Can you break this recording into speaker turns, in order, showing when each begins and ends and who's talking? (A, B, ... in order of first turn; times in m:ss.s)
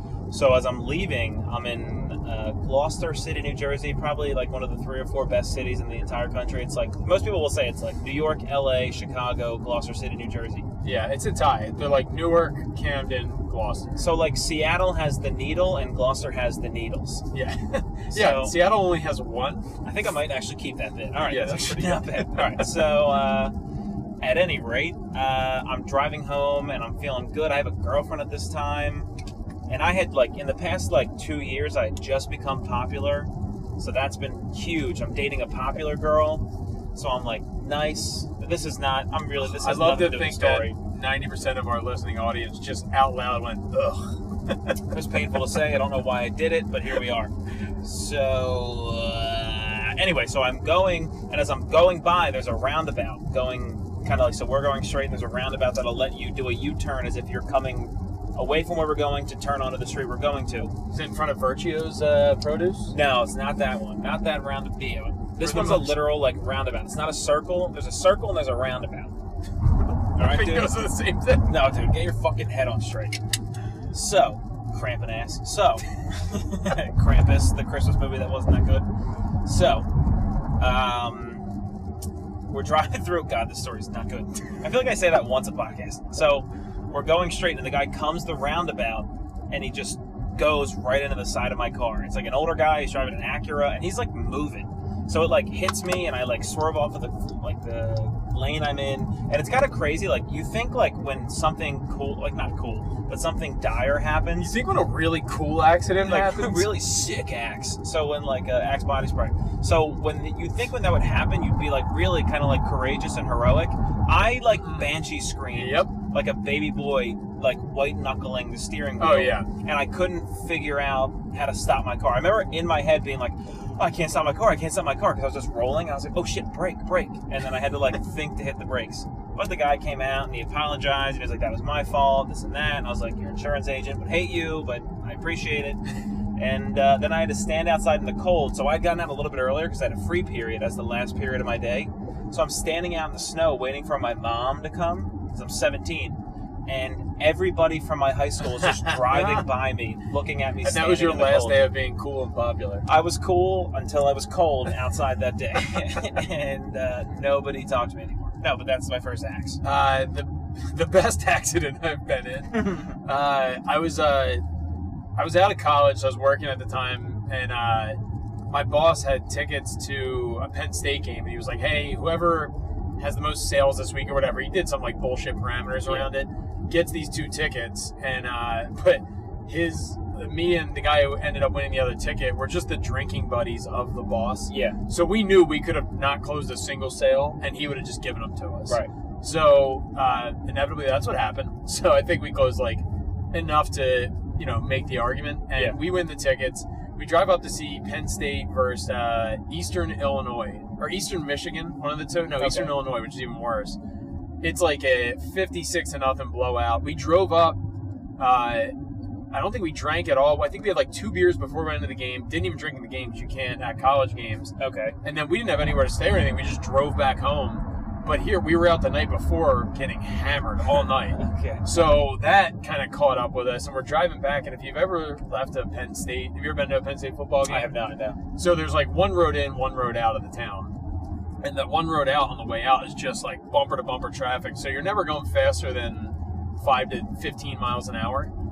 0:00.3-0:10.7 A
0:10.8-0:14.0 B
0:14.0-0:17.3 A
0:17.3-0:19.7 B
0:18.1-0:18.6 A
0:19.8-0:23.6 A
0:21.2-0:22.9 B
0:24.2-0:29.1 A
0:29.7-0:40.8 A
0:39.4-0:44.8 B
0:44.9-1:00.7 A
1:00.9-1:03.0 B
1:02.9-1:09.1 A
1:05.4-1:06.0 B
1:10.1-1:10.8 A
1:10.2-1:11.6 B
1:11.4-1:13.2 A
1:13.9-1:18.9 A
1:19.4-1:19.9 A
1:20.6-1:21.5 A
1:22.5-1:44.6 A
1:44.4-1:46.7 B
1:46.0-2:15.8 A
1:54.6-1:54.9 B
1:55.5-1:55.9 B
1:59.0-1:59.5 B
2:16.4-2:31.6 A
2:28.8-2:29.5 B
2:30.6-2:32.9 B
2:32.9-2:39.6 A
2:39.6-2:44.4 B
2:42.5-2:43.0 A
2:45.2-2:48.0 B
2:48.5-3:23.8 B
2:55.8-2:56.1 A
3:04.5-3:04.8 A
3:22.4-3:22.8 A
3:24.4-3:27.6 B
3:28.2-3:28.7 B
3:29.3-3:47.7 B
3:34.6-3:35.0 A
3:41.1-3:41.7 A
3:47.4-3:48.2 A
3:48.3-3:50.8 B
3:51.4-3:58.3 B